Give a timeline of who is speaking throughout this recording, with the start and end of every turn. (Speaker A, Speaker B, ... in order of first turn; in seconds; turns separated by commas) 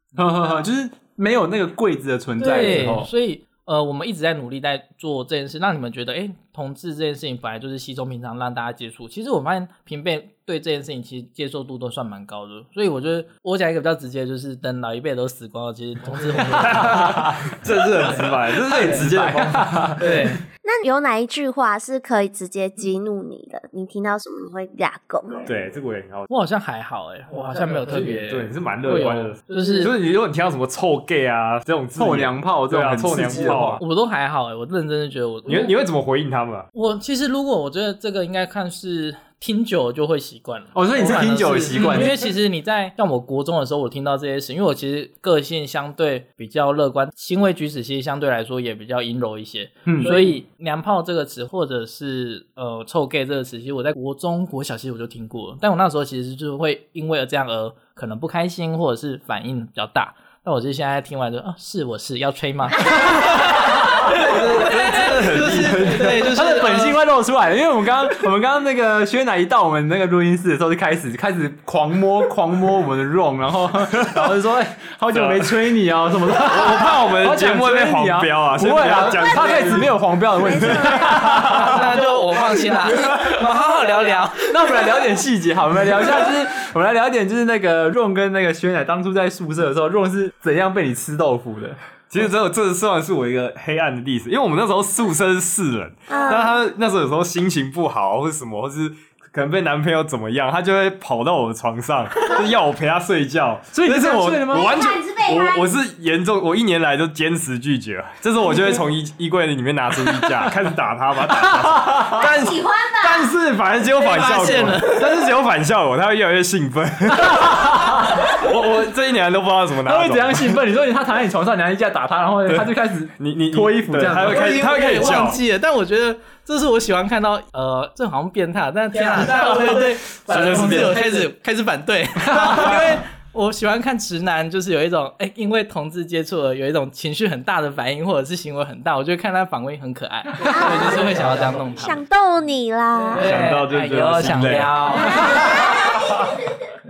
Speaker A: 0.2-3.1, Speaker B: 2.4-17.2, Speaker C: 16.6-19.9, Speaker A: 16.6-20.4, Speaker B: 20.0-20.4, Speaker D: 20.6-25.5, Speaker C: 25.4-26.3, Speaker B: 26.3-29.9, Speaker C: 28.0-33.8, Speaker A: 31.9-33.8, Speaker B: 33.8-35.8, Speaker C: 35.5-36.7, Speaker B: 36.7-67.0, Speaker A: 40.8-42.2, Speaker A: 49.9-50.2, Speaker C: 64.0-66.4, Speaker A: 66.0-82.0, Speaker C: 75.1-75.5, Speaker C: 76.4-79.9, Speaker D: 80.4-81.1, Speaker C: 80.5-81.8, Speaker B: 81.4-84.9, Speaker A: 82.7-83.4, Speaker A: 84.3-91.8, Speaker C: 92.1-120.6, Speaker D: 96.1-96.5, Speaker A: 103.7-104.7, Speaker D: 104.5-105.7, Speaker A: 110.1-110.5, Speaker A: 111.3-112.3, Speaker D: 112.2-113.3, Speaker B: 114.0-115.1, Speaker A: 117.1-118.4, Speaker A: 119.8-124.7, Speaker C: 123.2-125.4, Speaker B: 124.2-142.0, Speaker A: 129.2-131.2, Speaker A: 132.3-132.9, Speaker D: 140.4-143.3, Speaker A: 140.4-141.3, Speaker B: 143.1-145.5, Speaker C: 143.2-144.8, Speaker A: 145.0-146.2, Speaker D: 145.3-145.8